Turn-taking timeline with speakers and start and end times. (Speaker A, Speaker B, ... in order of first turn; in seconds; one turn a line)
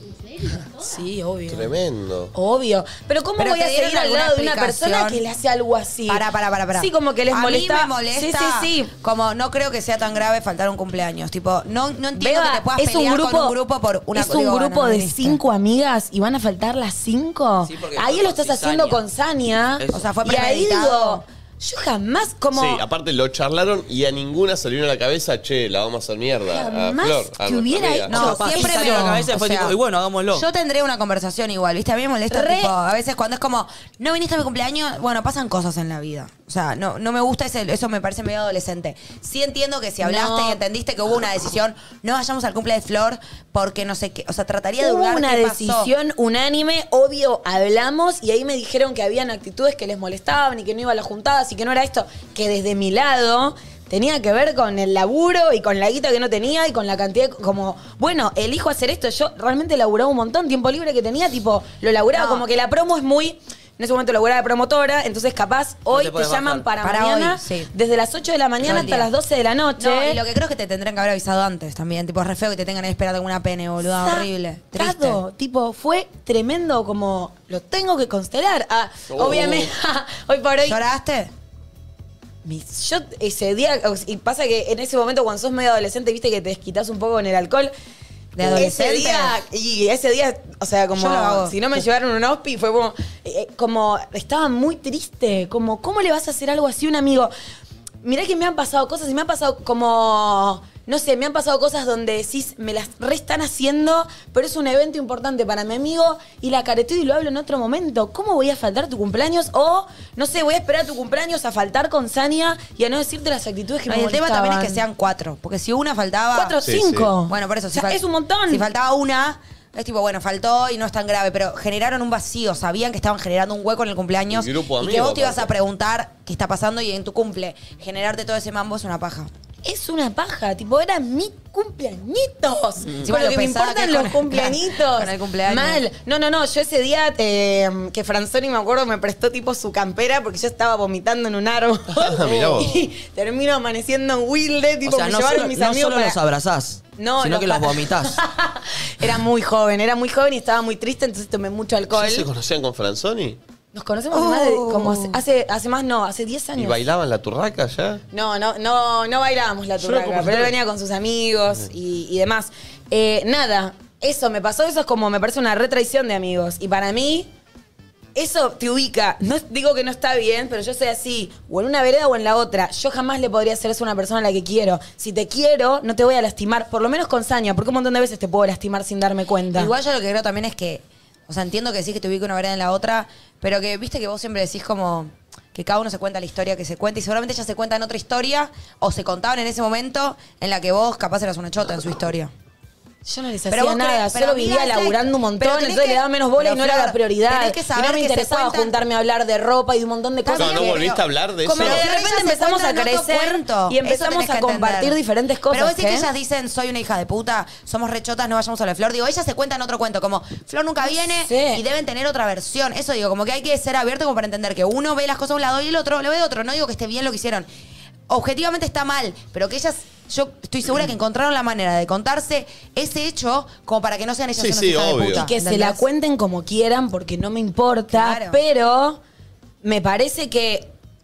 Speaker A: 0.6-1.7
Speaker B: 1.5-2.3
Speaker A: 2.3-8.9
Speaker C: 3.4-5.2
Speaker C: 6.1-15.4
Speaker A: 12.2-13.5
Speaker A: 14.1-22.8
Speaker D: 17.6-19.0
Speaker D: 19.8-20.1
Speaker C: 19.9-21.2
Speaker B: 22.5-28.2
Speaker A: 26.5-29.2
Speaker C: 28.1-29.8
Speaker D: 28.1-30.4
Speaker C: 30.3-45.9
Speaker A: 32.3-32.7
Speaker A: 40.0-40.6
Speaker A: 44.8-70.2
Speaker C: 62.1-62.4
Speaker D: 65.9-66.7
Speaker C: 66.8-67.7
Speaker C: 68.6-69.1
Speaker C: 69.8-75.2
Speaker A: 73.8-80.8
Speaker B: 79.1-79.7
Speaker C: 80.6-81.3
Speaker A: 82.4-87.7
Speaker C: 88.3-89.3
Speaker A: 88.4-97.3
Speaker C: 90.9-91.5
Speaker A: 98.0-114.8
Speaker C: 113.9-116.6
Speaker A: 116.3-118.7
Speaker B: 116.6-117.1
Speaker C: 117.3-129.3
Speaker B: 124.3-125.5
Speaker A: 129.6-146.2
Speaker C: 133.0-135.8
Speaker B: 141.9-142.8
Speaker D: 144.8-148.2
Speaker A: 147.0-152.3
Speaker B: 151.9-153.4
Speaker A: 153.7-156.8
Speaker C: 154.1-155.2
Speaker B: 156.6-158.0
Speaker A: 158.1-167.3
Speaker B: 160.0-160.3
Speaker A: 168.1-179.7
Speaker C: 179.5-192.3
Speaker A: 193.0-200.8
Speaker C: 193.5-198.7
Speaker C: 200.2-205.0
Speaker B: 200.4-201.8
Speaker A: 201.5-206.1
Speaker C: 205.5-217.5
Speaker A: 210.8-211.6
Speaker C: 218.1-225.8
Speaker B: 224.3-225.2
Speaker A: 225.1-229.0
Speaker C: 227.9-228.4
Speaker A: 229.6-230.7